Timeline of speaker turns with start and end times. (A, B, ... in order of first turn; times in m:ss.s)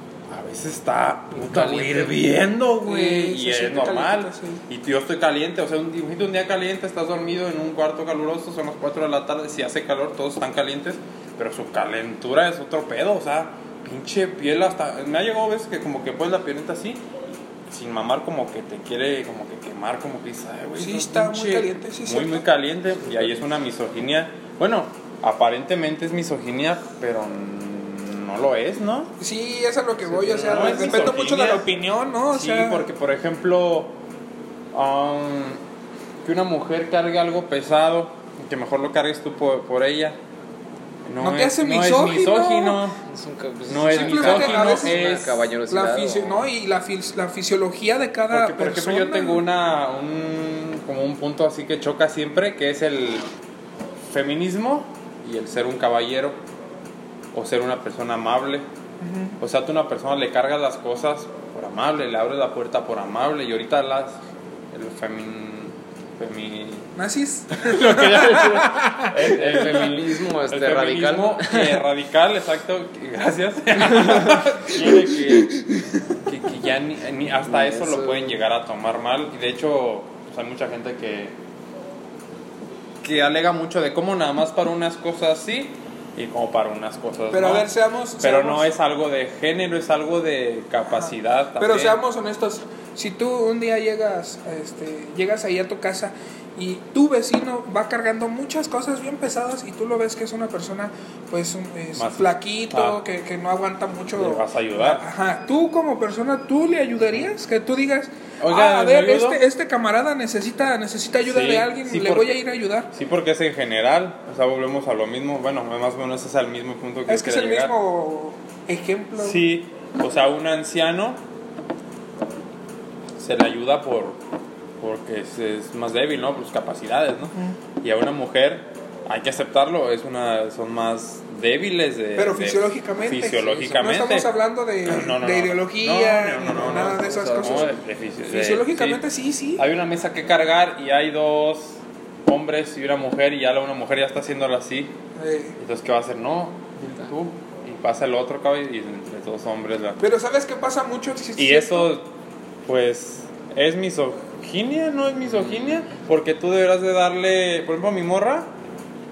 0:00.3-0:29.1 A
0:01.3-0:02.1 B
0:02.8-0:04.6 C
0:20.8-0:22.5 C
0:29.2-0:32.8 C
0:30.0-0:31.1 B
0:30.4-0:31.7 A
0:32.3-0:34.0 A
0:34.7-0:35.6 A
0:36.2-0:40.2 A
0:41.0-0:43.0 A
0:41.2-0:42.8 C
0:43.0-0:46.5 B
0:43.7-0:45.5 A
0:43.8-0:45.0 C
0:45.7-0:49.4 C
0:48.3-0:53.2 A
0:54.1-0:56.4 A
0:57.3-0:58.6 A
0:59.0-0:59.4 C
0:59.4-1:04.2 A
1:04.7-1:06.9 A
1:07.0-1:09.3 C
1:07.5-1:21.4 A
1:08.2-1:11.8 B
1:17.4-1:18.4 B
1:23.0-1:27.7 A
1:27.3-1:28.7 C
1:28.2-1:32.0 A
1:30.8-1:52.9 C
1:41.9-1:43.0 A
1:44.2-1:45.0 A
1:47.0-1:47.3 A
1:48.4-1:49.4 A
1:51.2-1:52.4 A
1:52.9-1:57.7 A
1:57.1-1:59.4 C
1:59.2-2:01.2 A
2:03.2-2:04.2 A
2:04.8-2:14.3 A
2:12.2-2:17.7 C
2:14.8-2:19.0 A
2:16.5-2:17.7 B
2:18.2-2:19.6 C
2:19.6-2:24.9 A
2:25.2-2:25.6 C
2:25.6-2:30.0 A
2:30.0-2:31.9 C
2:31.4-2:32.1 A
2:32.6-2:38.5 A